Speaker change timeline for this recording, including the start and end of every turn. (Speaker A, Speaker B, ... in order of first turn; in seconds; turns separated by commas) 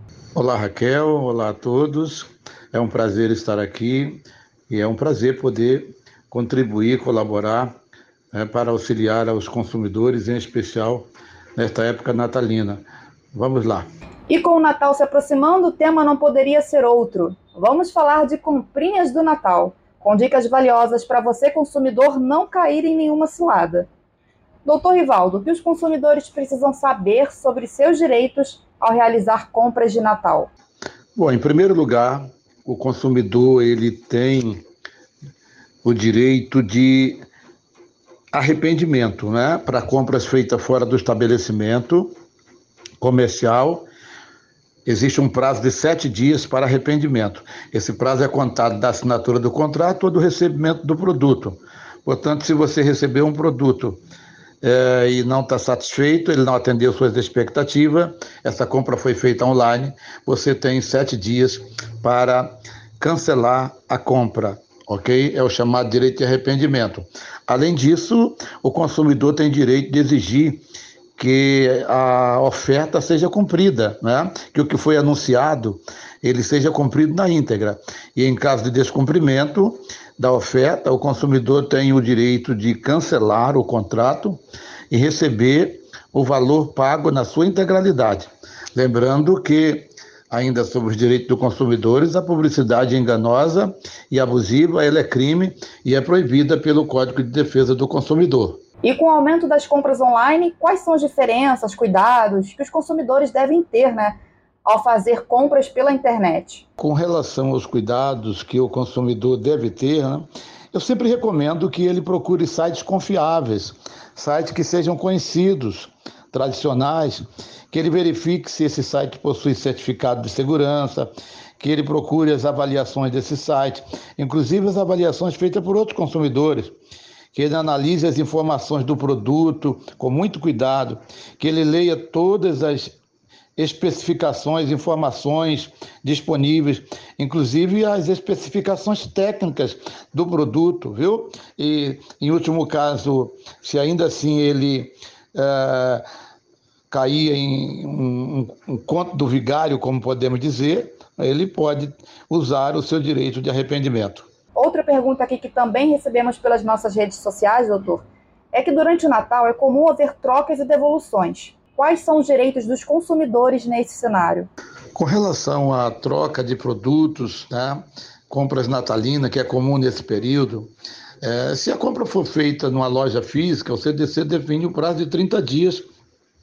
Speaker A: 0.4-7.7, Speaker A: 8.3-13.9, Speaker B: 14.3-23.9, Speaker B: 24.6-30.5, Speaker A: 31.2-34.6, Speaker A: 35.8-37.2, Speaker A: 38.3-42.1, Speaker A: 43.0-43.9, Speaker A: 44.9-54.0, Speaker A: 54.6-70.6, Speaker A: 71.2-84.4, Speaker A: 84.9-98.6, Speaker B: 98.8-106.6, Speaker A: 106.8-126.8, Speaker A: 127.3-132.9, Speaker A: 133.6-146.0, Speaker A: 146.9-154.3, Speaker B: 154.6-164.5, Speaker A: 165.0-170.7, Speaker A: 171.2-175.8